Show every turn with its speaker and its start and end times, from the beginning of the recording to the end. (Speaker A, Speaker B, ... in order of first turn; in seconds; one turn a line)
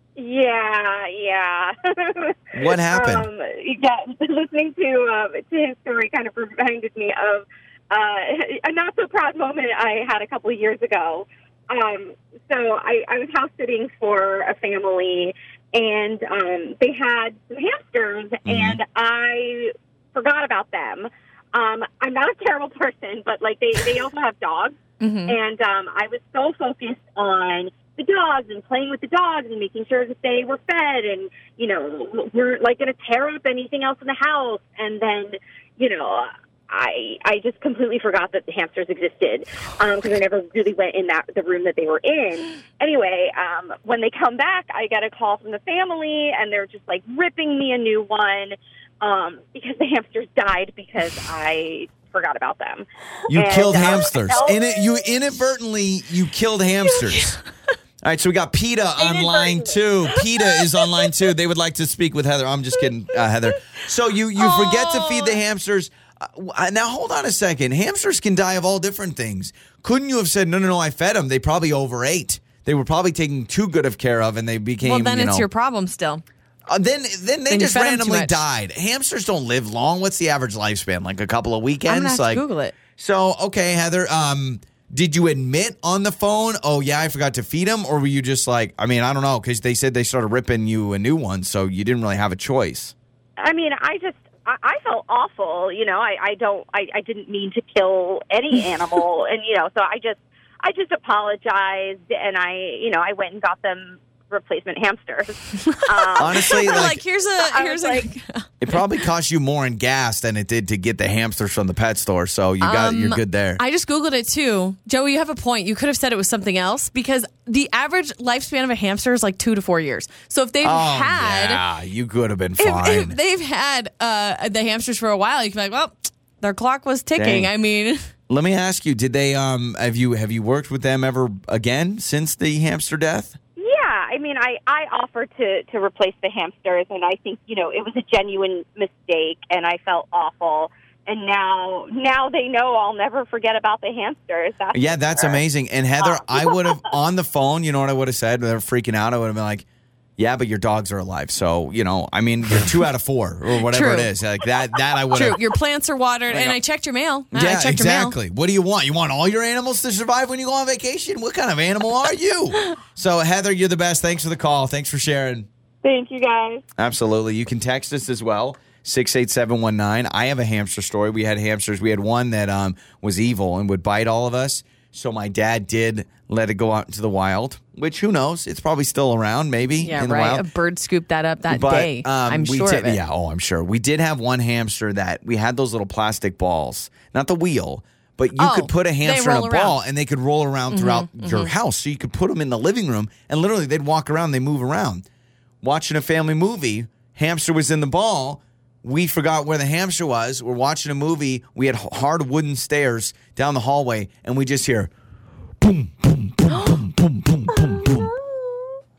Speaker A: 0.2-54.6
Speaker B: 2.5-3.3
Speaker B: 18.4-18.8
Speaker C: 25.0-25.4
Speaker B: 53.3-57.3
Speaker C: 56.9-57.4
Speaker B: 58.0-75.5
Speaker A: 59.0-59.8
Speaker C: 60.1-61.1
Speaker C: 64.4-65.4
Speaker C: 74.8-76.2
Speaker B: 76.7-92.9
Speaker C: 77.5-78.4
Speaker C: 81.8-82.7
Speaker A: 93.4-108.1
Speaker C: 106.1-108.8
Speaker B: 106.2-107.0
Speaker B: 108.6-113.6
Speaker C: 112.6-121.6
Speaker B: 120.6-123.2
Speaker C: 122.6-128.1
Speaker B: 127.1-127.5
Speaker B: 128.3-133.4
Speaker A: 133.6-145.4
Speaker B: 144.7-149.7
Speaker A: 146.0-146.7
Speaker B: 150.2-155.4
Speaker C: 153.7-154.1
Speaker C: 155.1-158.2
Speaker B: 156.3-156.6
Speaker B: 157.3-165.5
Speaker A: 165.8-166.6
Speaker B: 166.8-180.4
Speaker C: 179.8-183.0
Speaker B: 181.5-195.0
Speaker C: 188.4-189.8
Speaker C: 190.7-191.5
Speaker B: 195.6-204.9
Speaker B: 205.6-208.1
Speaker C: 206.5-206.8
Speaker C: 207.5-208.8